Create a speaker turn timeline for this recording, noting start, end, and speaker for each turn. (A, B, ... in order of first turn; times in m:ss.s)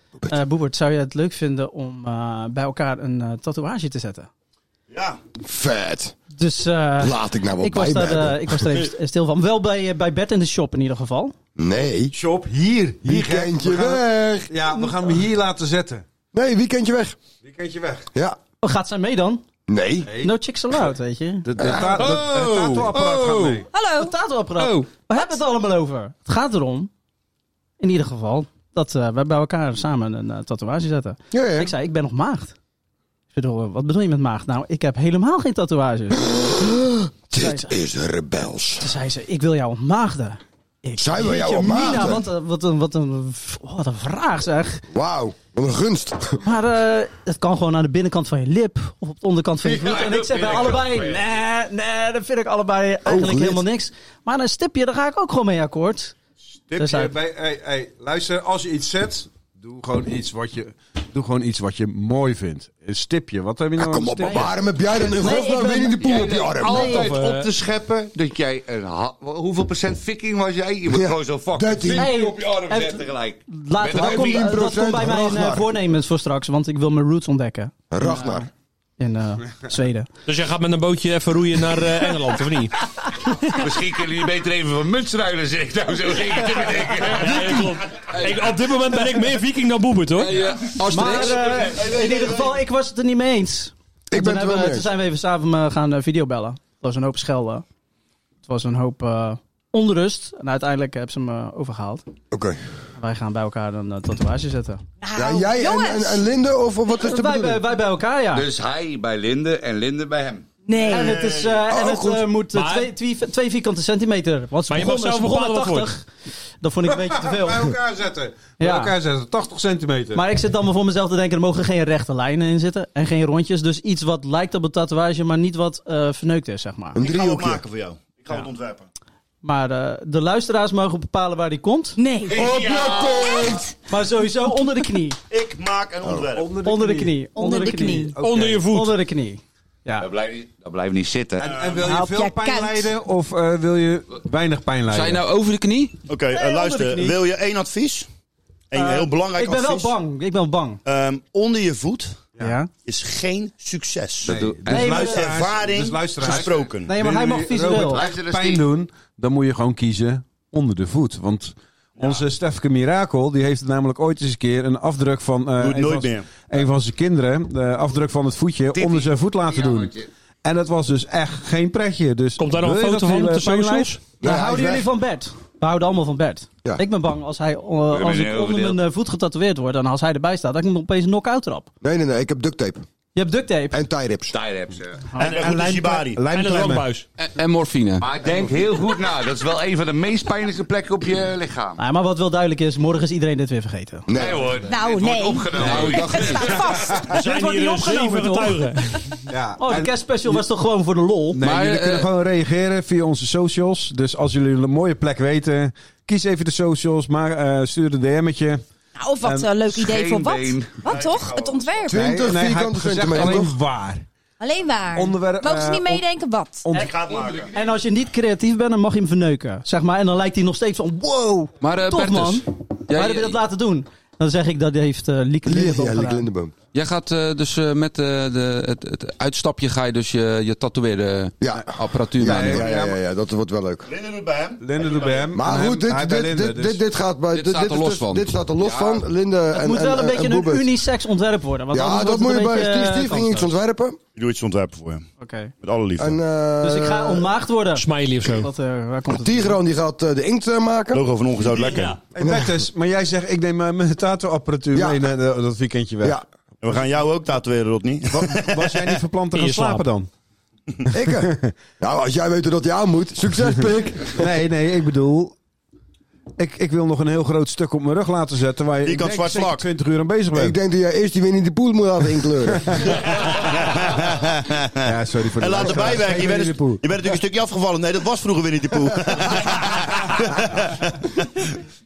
0:00.3-0:04.3 A
0:04.9-0:05.2 B
0:05.4-0:06.2 C
0:06.3-0:11.3 A
0:07.0-0:08.7 C
0:11.6-0:12.2 C
0:12.1-0:16.0 D
0:13.0-0:14.5 C
0:16.3-0:17.2 C
0:17.4-0:18.1 D
0:18.6-0:19.4 A
0:19.7-0:20.1 C
0:20.0-0:20.3 D
0:20.2-0:21.5 A
0:21.5-0:23.7 D
0:21.6-0:22.6 C
0:23.0-0:23.6 E
0:23.7-0:24.1 F
0:24.0-0:26.9 A
0:27.8-0:32.5 A
0:31.3-0:31.7 C
0:33.3-0:36.4 A
0:36.2-0:38.9 C
0:37.3-0:37.7 A
0:38.8-0:44.8 A
0:41.0-0:42.2 C
0:44.9-0:46.4 C
0:46.4-0:56.1 A
0:49.7-0:51.2 G
0:53.0-0:53.6 C
0:56.7-1:04.6 D
0:56.8-0:57.1 A
1:03.8-1:07.0 C
1:04.2-1:07.2 A
1:06.0-1:14.5 G
1:06.9-1:07.5 E
1:10.9-1:12.1 C
1:11.9-1:18.5 A
1:13.9-1:15.7 C
1:17.9-1:18.5 C
1:19.0-1:20.1 A
1:20.3-1:22.7 E
1:23.5-1:28.2 G
1:27.0-1:30.4 E
1:30.2-1:31.8 H
1:30.9-1:37.6 A
1:34.1-1:34.9 C
1:38.4-1:42.0 A
1:42.3-1:42.6 C
1:43.0-1:44.8 A
1:45.0-1:46.2 F
1:45.2-1:47.6 C
1:47.0-1:48.5 A
1:48.3-1:50.5 G
1:50.6-1:51.2 F
1:50.8-1:51.6 B
1:50.9-1:56.1 A
1:51.7-1:52.3 C
1:52.5-1:52.9 E
1:54.7-1:55.9 E
1:56.6-1:57.7 A
1:56.9-2:00.2 D
1:58.6-1:58.9 A
2:00.2-2:07.0 A
2:06.9-2:07.6 C
2:07.0-2:08.9 B
2:09.4-2:12.0 A
2:12.0-2:12.5 F
2:12.3-2:13.7 C
2:12.4-2:13.2 G
2:13.2-2:13.6 F
2:13.9-2:15.2 A
2:15.3-2:16.5 B
2:16.4-2:18.6 D
2:16.6-2:20.1 A
2:17.4-2:18.2 F
2:18.2-2:19.0 E
2:20.0-2:21.5 G
2:21.4-2:25.2 D
2:21.4-2:21.9 B
2:21.9-2:22.9 F
2:24.9-2:25.9 H
2:26.1-2:28.1 B
2:26.3-2:27.2 A
2:28.7-2:29.9 B
2:28.8-2:30.8 A
2:30.8-2:32.2 B
2:32.4-2:32.7 A
2:32.8-2:34.4 B
2:34.2-2:35.1 G
2:34.3-2:53.9 D
2:34.7-2:35.3 A
2:34.9-2:37.1 B
2:36.2-2:36.5 G
2:36.9-2:38.0 A
2:37.7-2:38.7 G
2:45.6-2:46.3 B
2:48.7-2:50.1 G
2:52.4-2:54.0 E
2:53.6-3:01.7 A
2:54.2-2:54.9 C
2:57.9-2:58.8 G
3:01.8-3:02.8 C
3:03.2-3:03.8 A
3:03.7-3:04.4 C
3:04.3-3:05.1 G
3:05.1-3:05.6 A
3:05.2-3:06.2 B
3:05.3-3:06.9 D
3:06.3-3:07.1 E
3:07.2-3:08.1 H
3:08.0-3:11.8 G
3:11.8-3:14.1 A
3:14.1-3:14.6 C
3:14.1-3:16.6 G
3:14.7-3:17.0 F
3:15.6-3:16.6 D
3:15.7-3:16.4 H
3:17.1-3:18.8 A
3:17.1-3:18.8 E
3:19.3-3:20.4 D
3:19.6-3:21.4 A
3:21.3-3:28.6 D
3:21.4-3:22.1 H
3:29.0-3:32.2 F
3:29.2-3:29.5 D
3:29.6-3:30.8 G
3:30.8-3:31.9 B
3:31.9-3:33.6 C
3:31.9-3:34.1 D
3:34.4-3:36.7 F
3:34.9-3:36.0 D
3:36.6-3:36.9 D
3:36.7-3:37.5 B
3:36.7-3:46.3 A
3:41.6-3:43.4 H
3:45.4-3:46.5 C
3:46.7-3:52.7 H
3:51.4-3:53.9 C
3:52.2-3:53.0 D
3:53.9-3:55.3 B
3:54.6-3:56.8 D
3:55.3-4:00.7 C
3:57.3-3:59.0 H
3:59.5-4:03.5 A
4:01.7-4:04.0 C
4:04.2-4:05.1 B
4:05.2-4:05.5 A
4:05.6-4:06.2 B
4:06.0-4:07.3 C
4:06.6-4:09.6 A
4:07.7-4:08.5 E
4:09.1-4:11.0 C
4:10.9-4:12.0 B
4:11.6-4:12.0 E
4:12.1-4:16.2 D
4:12.2-4:12.6 C
4:14.7-4:15.1 C
4:16.6-4:19.0 B
4:18.1-4:20.1 D
4:19.3-4:19.9 E
4:20.9-4:24.3 C
4:21.1-4:21.5 D
4:24.0-4:25.4 D
4:26.4-4:30.6 D
4:28.8-4:29.7 B
4:30.3-4:32.9 C
4:32.7-4:33.0 D
4:33.0-4:34.8 B
4:34.8-4:36.8 D
4:35.4-4:41.3 B